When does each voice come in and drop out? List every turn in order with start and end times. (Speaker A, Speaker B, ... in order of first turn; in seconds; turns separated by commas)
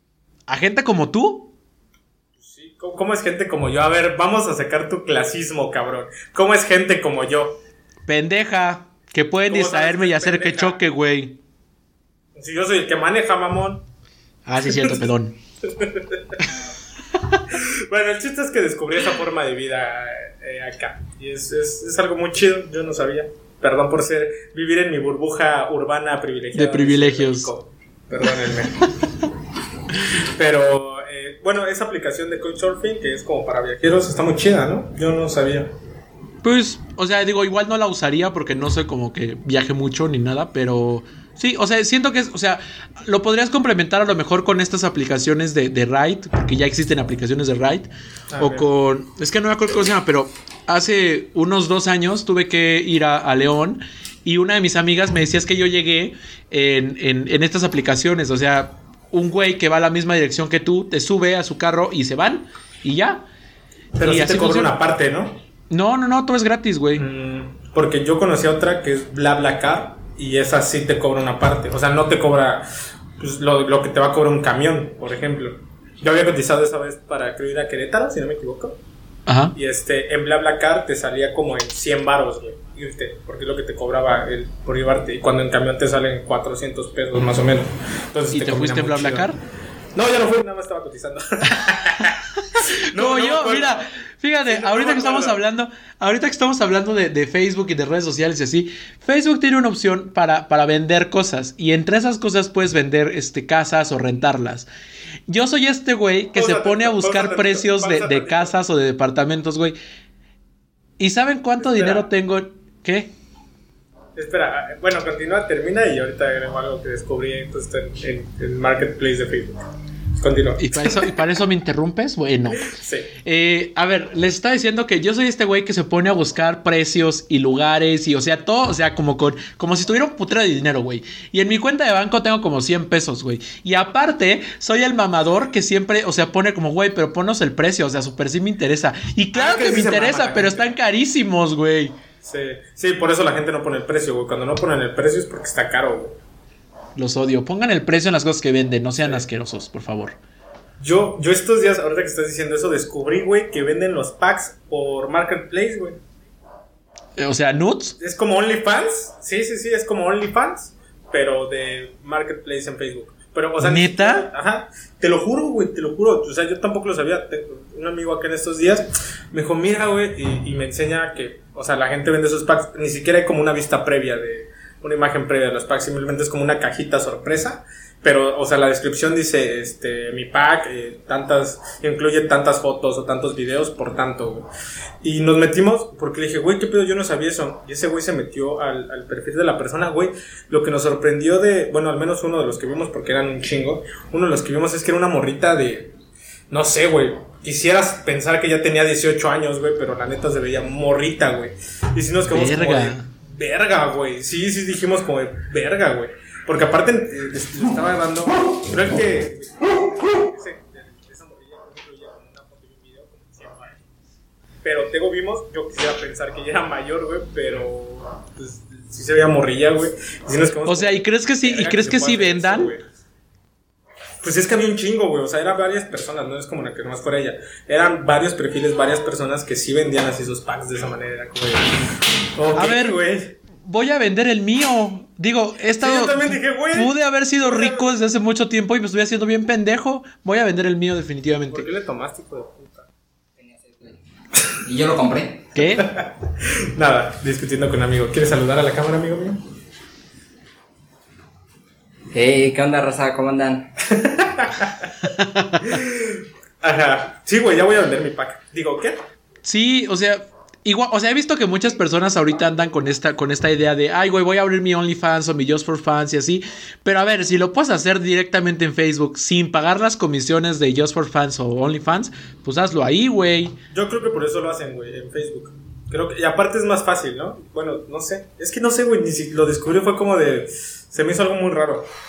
Speaker A: 0.5-1.5, Speaker B: 2.4-7.6, Speaker A: 8.1-11.4, Speaker B: 9.5-10.8, Speaker B: 12.3-13.8, Speaker A: 14.5-15.4, Speaker B: 14.7-15.1, Speaker B: 15.6-16.5, Speaker B: 17.5-29.0, Speaker A: 26.6-27.5, Speaker B: 30.1-35.7, Speaker A: 36.4-47.9, Speaker B: 48.3-48.7, Speaker A: 48.4-63.2, Speaker B: 64.0-65.4, Speaker A: 64.0-64.7, Speaker A: 65.7-67.0, Speaker B: 67.0-78.8, Speaker A: 79.3-79.5, Speaker B: 79.5-89.3, Speaker A: 88.3-89.4, Speaker B: 90.0-93.9, Speaker A: 92.9-104.7, Speaker B: 94.4-95.4, Speaker A: 105.3-109.8, Speaker B: 106.3-108.6, Speaker A: 111.0-113.1, Speaker B: 111.6-112.1, Speaker B: 114.1-119.6, Speaker B: 120.2-121.1, Speaker A: 120.6-122.7, Speaker B: 122.7-123.1, Speaker A: 123.2-141.9, Speaker B: 139.3-140.8, Speaker B: 142.2-146.2, Speaker A: 147.0-150.2, Speaker B: 150.8-156.0, Speaker A: 157.2-158.0, Speaker B: 158.0-184.5, Speaker A: 163.6-164.3, Speaker B: 185.0-195.9, Speaker B: 196.5-213.8, Speaker A: 202.3-203.1, Speaker B: 214.6-222.9, Speaker A: 220.7-222.7, Speaker B: 224.2-231.8, Speaker B: 232.3-233.4, Speaker A: 232.6-233.0, Speaker A: 233.6-241.7, Speaker B: 235.8-237.9, Speaker B: 241.5-242.9, Speaker C: 243.4-245.5, Speaker A: 245.6-245.9, Speaker B: 245.7-249.4, Speaker C: 252.1-253.7, Speaker B: 253.9-254.9, Speaker A: 255.0-255.8, Speaker B: 255.6-259.0, Speaker A: 259.4-273.6, Speaker B: 273.7-281.9